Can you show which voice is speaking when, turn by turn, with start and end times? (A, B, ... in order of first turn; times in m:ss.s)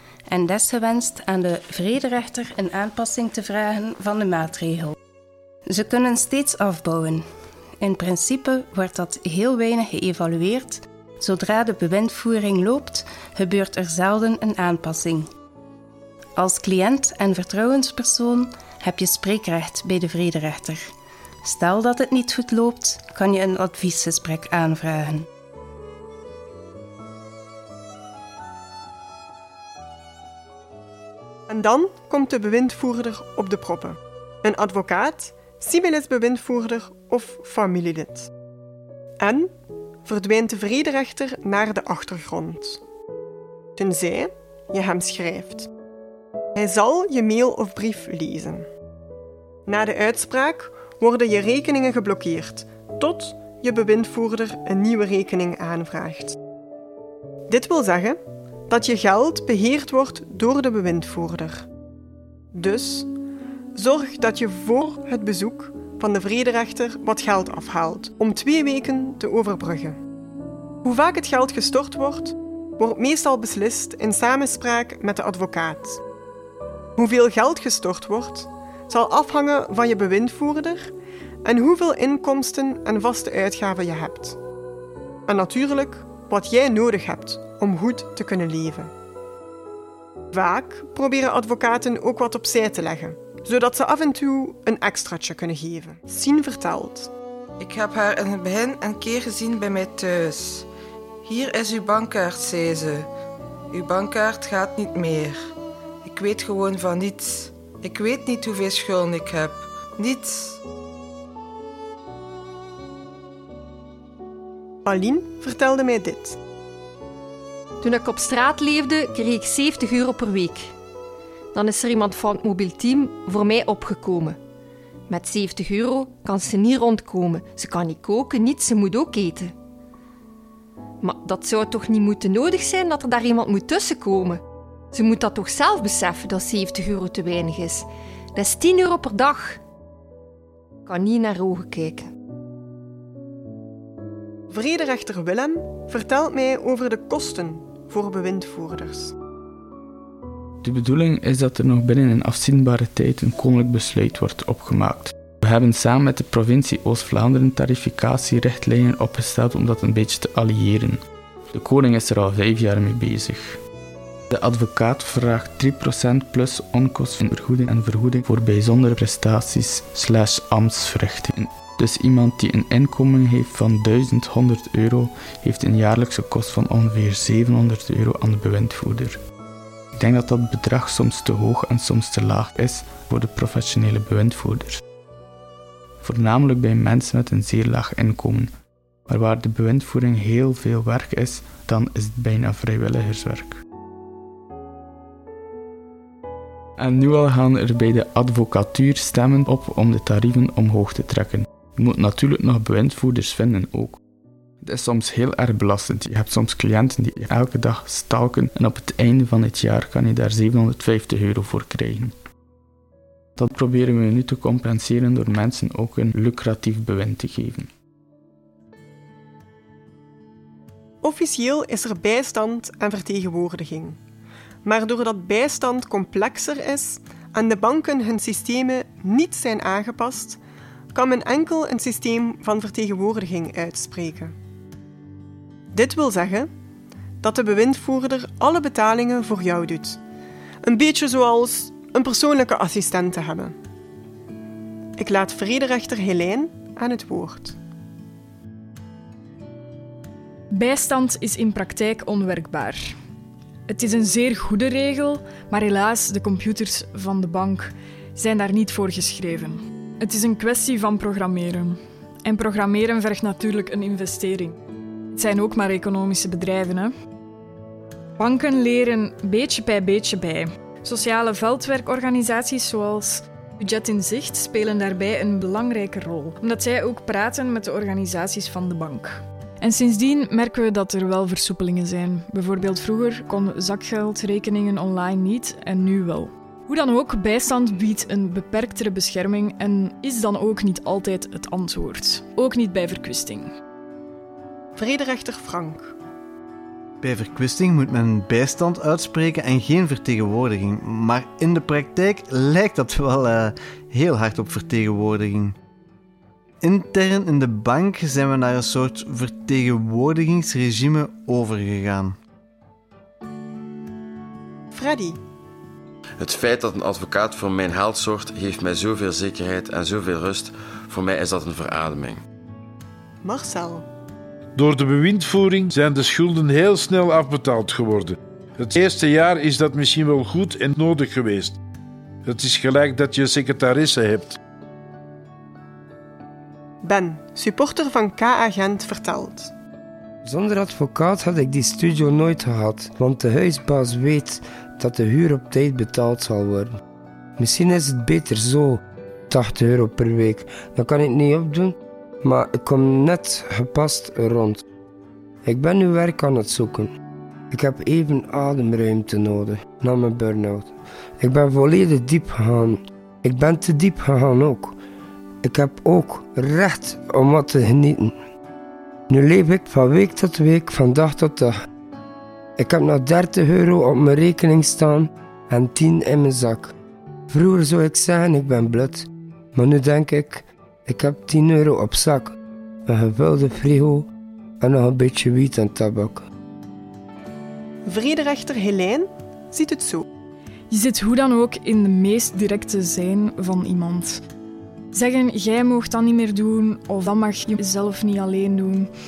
0:00.3-0:05.0 A
0:05.7-0:07.2 A
0:07.8-0:15.3 A
0:16.4-0:20.8 A
0:21.4-0:25.3 A
0:31.5-0:38.3 B
0:39.2-0:39.5 B
0:40.0-0:42.8 B
0:43.8-0:45.7 B
0:46.6-0:48.7 B
0:49.6-0:56.4 B
0:57.5-1:01.7 B
1:02.5-1:03.1 B
1:03.7-1:10.0 B
1:10.8-1:16.0 B
1:17.0-1:20.9 B
1:21.4-1:24.4 B
1:25.3-1:28.9 B
1:30.3-1:37.1 B
1:37.6-1:40.7 C
1:41.2-1:43.1 C
1:43.7-1:45.5 C
1:46.0-1:50.6 C
1:54.8-1:56.4 B
1:57.8-2:00.7 D
2:01.5-2:04.4 D
2:05.1-2:09.5 D
2:11.0-2:14.4 D
2:14.9-2:19.6 D
2:20.8-2:22.1 D
2:24.5-2:29.1 B
2:30.6-2:43.6 E
2:44.3-2:59.2 E
2:59.9-3:04.8 E
3:06.0-3:08.5 E
3:09.1-3:13.6 E
3:16.8-3:24.0 E
3:24.6-3:32.1 E
3:33.4-3:37.7 E
3:41.0-3:44.0 B
3:44.6-3:50.4 B
3:50.9-3:54.3 B
3:55.7-3:56.5 B
3:57.2-4:00.0 B
4:00.6-4:03.6 B
4:05.0-4:07.6 B
4:10.5-4:12.9 F
4:13.7-4:24.6 F
4:25.1-4:26.9 F
4:28.2-4:53.5 F
4:54.8-4:56.0 B
4:57.0-5:05.5 G
5:06.6-5:12.1 G
5:14.7-5:15.2 B
5:16.2-5:22.2 H
5:23.2-5:23.8 B
5:24.6-5:31.6 I
5:32.2-5:34.4 I
5:36.8-5:39.5 B
5:40.2-5:46.8 J
5:47.4-5:54.6 J
5:55.4-5:56.9 J
5:57.5-6:04.8 J
6:05.4-6:08.2 J
6:09.1-6:11.6 J
6:12.6-6:16.7 J
6:17.3-6:24.1 J
6:24.6-6:26.3 J
6:27.8-6:30.1 B
6:30.7-6:34.2 F
6:34.9-6:38.9 F